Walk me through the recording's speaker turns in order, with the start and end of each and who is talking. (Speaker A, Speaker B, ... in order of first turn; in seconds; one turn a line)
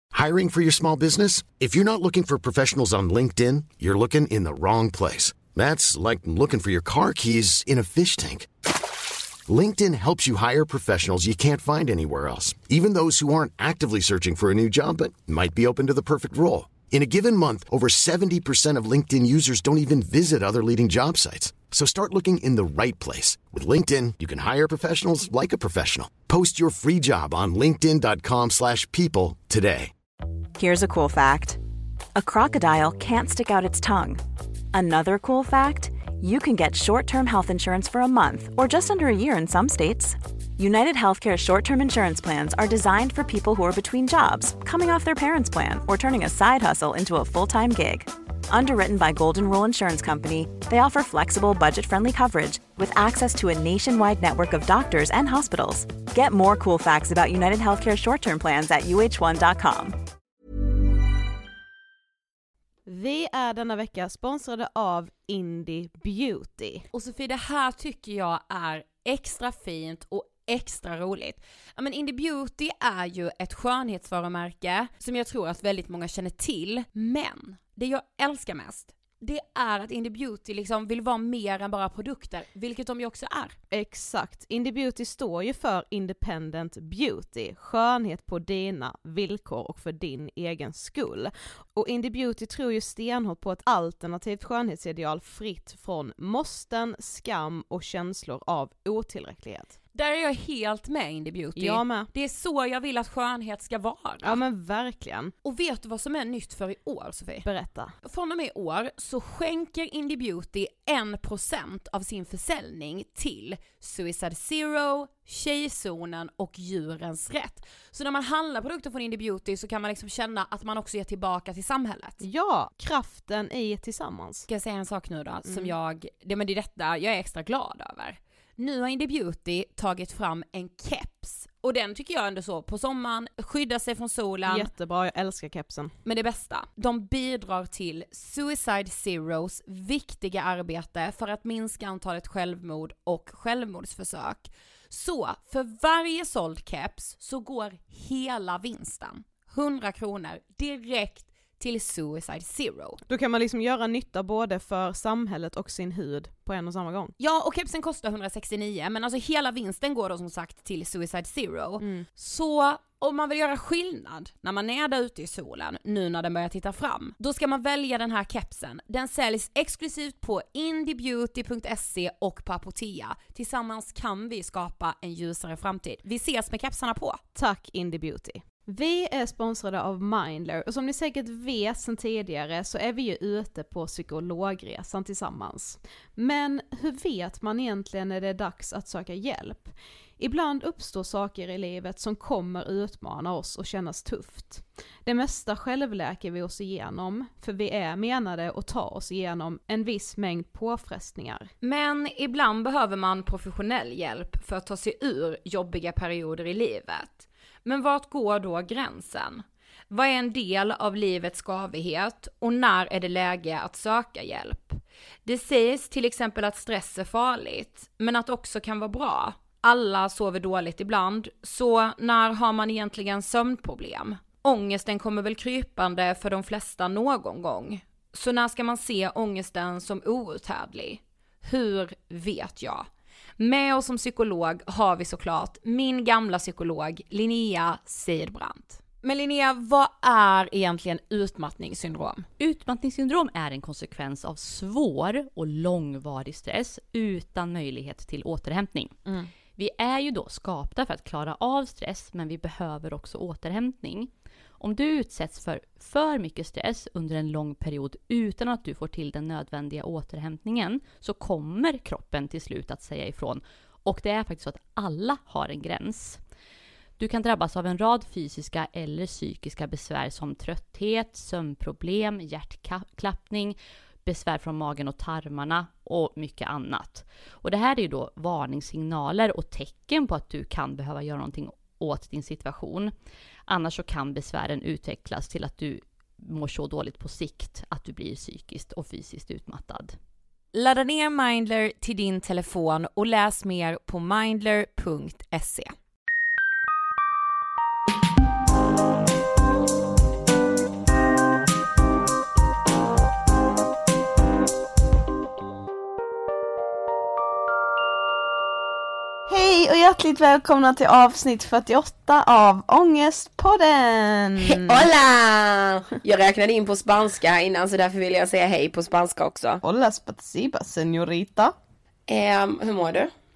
Speaker A: 0.1-8.5
Speaker A: 9.5-29.9
Speaker B: 30.6-31.6
Speaker B: 32.1-34.2
Speaker B: 34.7-60.0
Speaker C: 62.9-66.8
Speaker D: 66.9-83.5
Speaker C: 83.7-96.4
Speaker D: 99.9-104.4
Speaker C: 101.6-102.0
Speaker C: 104.3-105.1
Speaker D: 105.4-107.5
Speaker D: 108.0-122.2
Speaker D: 124.5-134.7
Speaker C: 125.5-125.7
Speaker C: 134.5-135.9
Speaker D: 136.0-153.0
Speaker D: 157.2-177.2
Speaker C: 177.3-201.5
Speaker D: 201.6-242.3
Speaker E: 242.4-248.9
Speaker E: 249.6-266.2
Speaker E: 267.0-282.9
Speaker E: 283.5-289.9
Speaker D: 290.5-295.7
Speaker F: 309.3-314.9
Speaker G: 314.4-319.6
Speaker F: 319.6-321.5
Speaker G: 322.1-323.1